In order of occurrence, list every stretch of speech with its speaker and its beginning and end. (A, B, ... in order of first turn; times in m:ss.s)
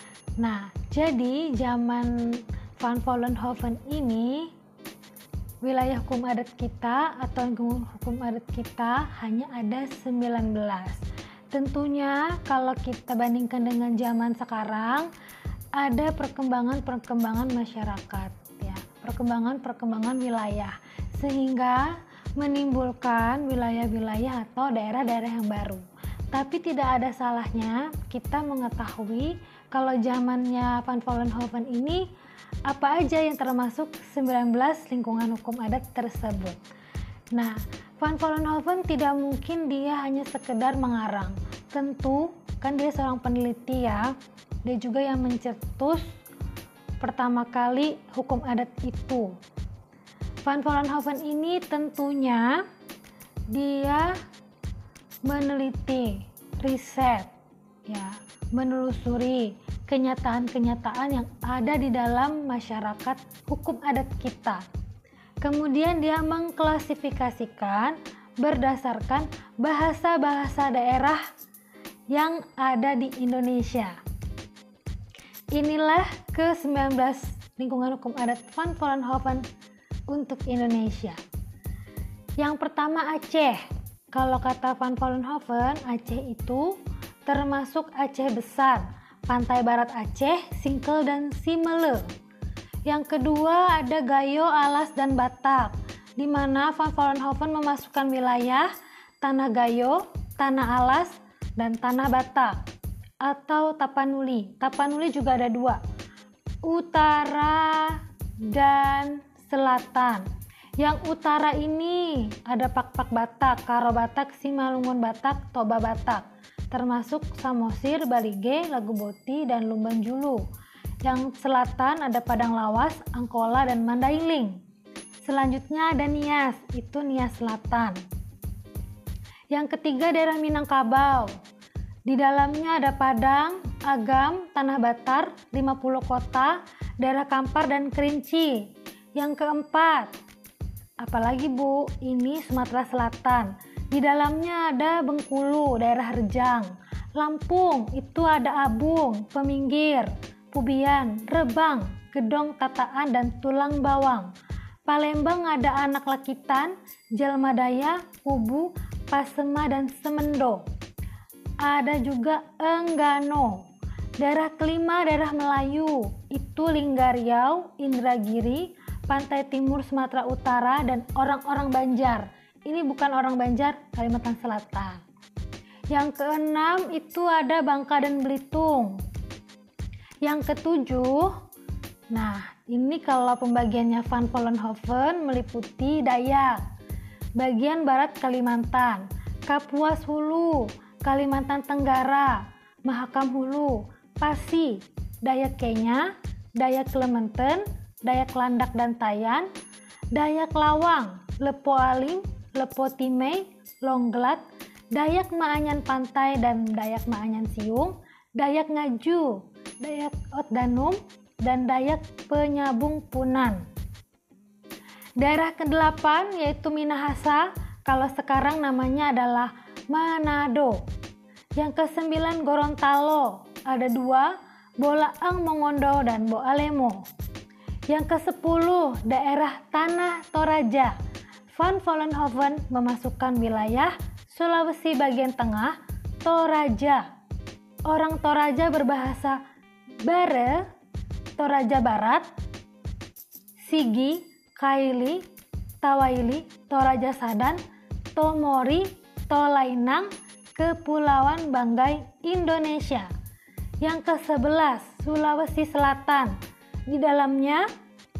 0:00.4-0:04.5 A
0:05.6-0:15.1 A
0:15.8-0:32.1 A
0:32.7-0:36.6 A
0:37.3-0:46.1 A
0:47.0-0:49.3 A
0:50.4-0:52.6 A
0:53.5-0:54.2 A
0:55.2-0:57.3 A
0:57.8-1:04.6 A
1:05.4-1:11.2 A
1:12.1-1:14.0 A
1:15.5-1:19.5 A
1:20.1-1:21.2 A
1:22.4-1:26.7 A
1:27.2-1:32.0 A
1:32.8-1:38.7 A
1:39.2-1:42.6 A
1:43.2-1:45.8 A
1:46.6-1:50.2 A
1:50.8-2:00.4 A
2:01.0-2:04.6 A
2:05.2-2:08.0 A
2:09.5-2:11.4 A
2:12.0-2:20.1 A
2:21.0-2:34.3 A
2:34.9-2:40.6 A
2:41.6-2:43.7 A
2:44.2-2:55.0 A
2:55.9-2:59.0 A
3:00.2-3:01.4 A
3:02.1-3:06.6 A
3:07.4-3:19.5 A
3:20.1-3:33.6 A
3:35.2-3:40.8 A
3:41.6-3:47.1 A
3:47.9-3:51.0 A
3:51.5-3:57.1 A
3:57.9-3:59.4 A
4:00.0-4:00.6 A
4:01.4-4:02.2 A
4:03.6-4:05.2 A
4:05.8-4:07.6 A
4:08.1-4:13.1 A
4:13.8-4:16.4 A
4:16.9-4:17.7 A